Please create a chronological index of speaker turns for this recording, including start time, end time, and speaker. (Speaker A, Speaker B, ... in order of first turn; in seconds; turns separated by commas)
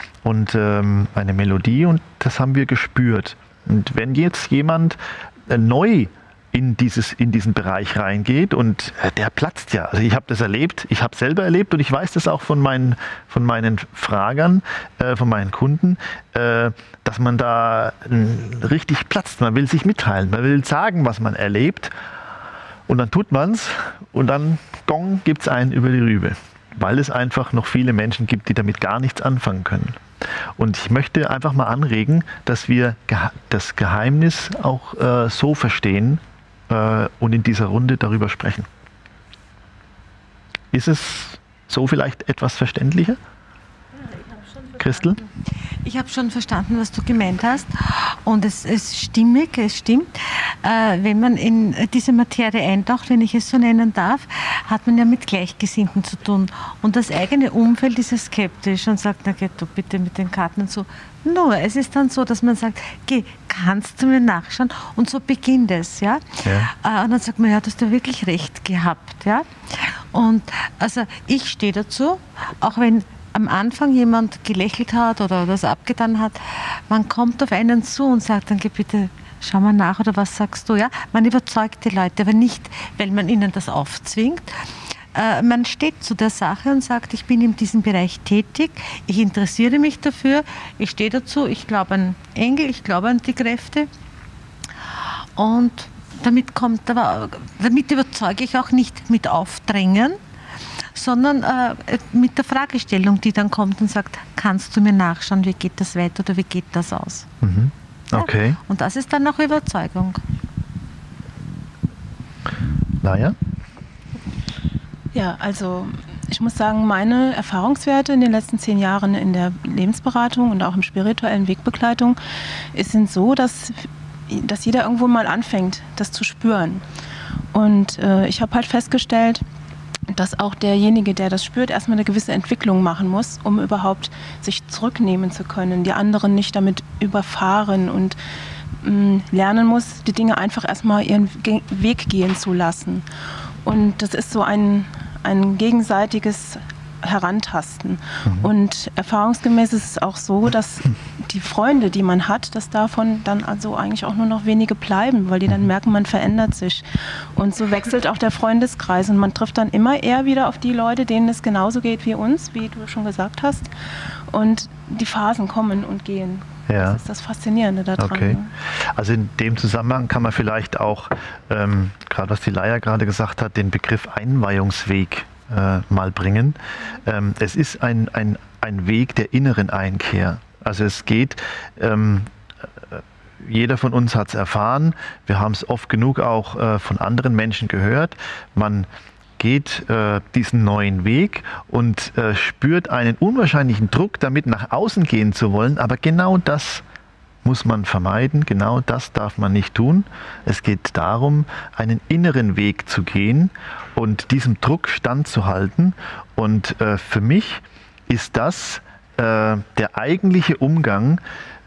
Speaker A: 0.2-21.9, Speaker A: 22.9-30.0, Speaker A: 30.6-38.7, Speaker A: 40.7-43.2, Speaker B: 44.0-45.3, Speaker A: 44.8-45.2, Speaker B: 45.8-93.9, Speaker A: 66.4-66.7, Speaker B: 95.3-100.2, Speaker B: 100.9-107.3, Speaker A: 107.4-108.6, Speaker B: 108.1-110.2, Speaker A: 113.0-113.4, Speaker C: 115.1-122.2, Speaker C: 122.7-126.8, Speaker C: 127.5-129.4, Speaker C: 130.1-138.2, Speaker C: 138.8-143.1, Speaker C: 143.6-163.7, Speaker C: 164.3-168.5, Speaker A: 166.7-167.0, Speaker A: 168.0-182.3, Speaker A: 182.9-188.9, Speaker A: 189.4-196.8, Speaker A: 197.4-211.2